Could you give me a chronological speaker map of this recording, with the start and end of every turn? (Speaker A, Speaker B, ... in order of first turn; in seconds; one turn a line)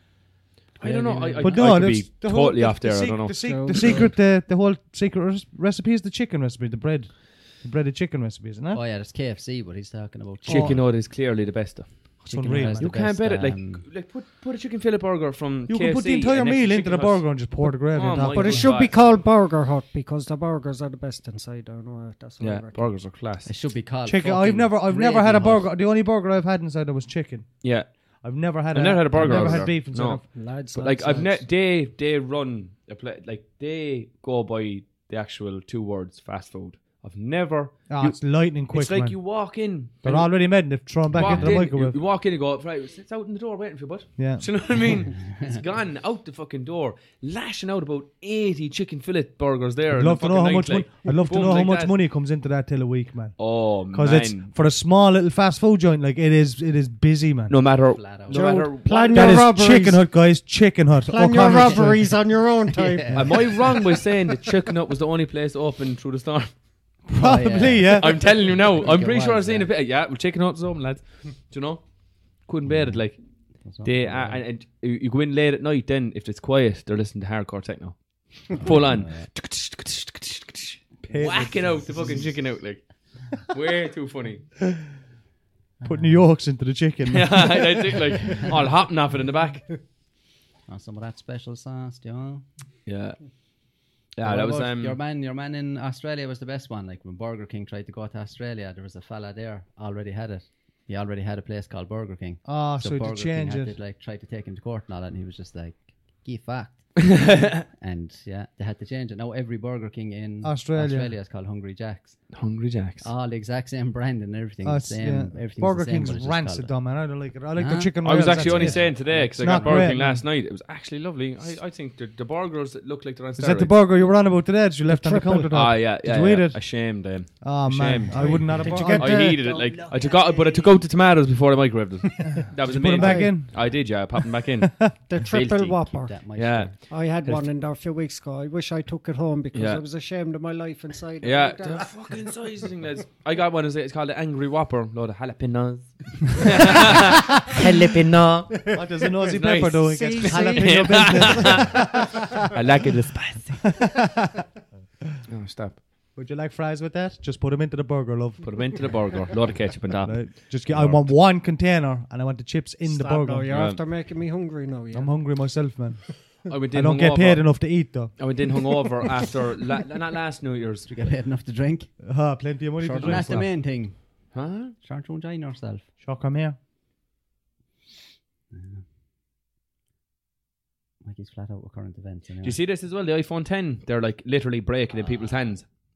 Speaker A: 0.8-1.9
Speaker B: 0.8-4.0
Speaker C: 1.4-8.8
Speaker D: 3.4-4.1
Speaker A: 8.7-10.8
Speaker C: 10.5-10.8
Speaker B: 10.5-12.2
Speaker C: 12.2-12.9
Speaker A: 12.3-13.8
Speaker B: 12.8-19.0
Speaker C: 15.7-18.7
Speaker D: 18.3-23.0
Speaker B: 22.4-23.5
Speaker A: 23.4-25.7
Speaker C: 24.1-30.3
Speaker B: 27.6-27.9
Speaker B: 28.7-51.9
Speaker D: 29.3-29.7
Speaker D: 30.3-31.4
Speaker C: 37.9-39.2
Speaker C: 40.0-42.0
Speaker A: 41.2-41.5
Speaker C: 44.2-44.5
Speaker C: 49.9-57.6
Speaker B: 53.4-54.5
Speaker B: 57.5-59.5
Speaker A: 57.9-58.4
Speaker D: 58.3-60.0
Speaker C: 59.1-62.1
Speaker D: 61.1-63.8
Speaker A: 62.7-63.6
Speaker B: 63.1-66.5
Speaker C: 67.1-68.2
Speaker A: 67.1-69.7
Speaker B: 68.0-84.5
Speaker A: 72.7-73.0
Speaker A: 73.6-74.4
Speaker A: 78.6-79.3
Speaker C: 81.0-82.1
Speaker A: 81.1-82.3
Speaker A: 85.8-86.2
Speaker C: 85.8-88.0
Speaker B: 87.1-89.7
Speaker A: 90.7-92.4
Speaker B: 92.9-95.0
Speaker A: 94.2-112.5
Speaker C: 102.5-103.8
Speaker B: 107.1-107.5
Speaker C: 110.4-111.1
Speaker B: 112.3-113.1
Speaker A: 113.0-116.9
Speaker C: 114.6-120.2
Speaker A: 117.5-120.0
Speaker B: 118.0-123.8
Speaker C: 123.4-129.4
Speaker D: 124.9-125.5
Speaker B: 125.5-136.7
Speaker D: 128.2-130.2
Speaker A: 128.6-128.9
Speaker A: 129.5-130.5
Speaker C: 132.4-133.9
Speaker D: 133.0-133.3
Speaker D: 135.1-136.2
Speaker A: 135.9-136.8
Speaker D: 136.9-141.9
Speaker B: 139.5-139.8
Speaker B: 141.2-148.7
Speaker C: 148.7-152.1
Speaker D: 149.0-151.7
Speaker B: 149.3-153.9
Speaker C: 153.8-154.2
Speaker B: 155.2-155.8
Speaker C: 156.2-159.1
Speaker B: 158.4-161.1
Speaker C: 159.8-163.7
Speaker D: 162.8-165.6
Speaker B: 163.5-163.8
Speaker C: 164.9-168.2
Speaker B: 166.5-170.9
Speaker A: 170.9-172.0
Speaker C: 172.0-173.5
Speaker A: 172.8-175.9
Speaker B: 174.3-174.7
Speaker C: 176.0-176.6
Speaker A: 178.5-178.8
Speaker A: 181.0-182.6
Speaker B: 182.4-185.7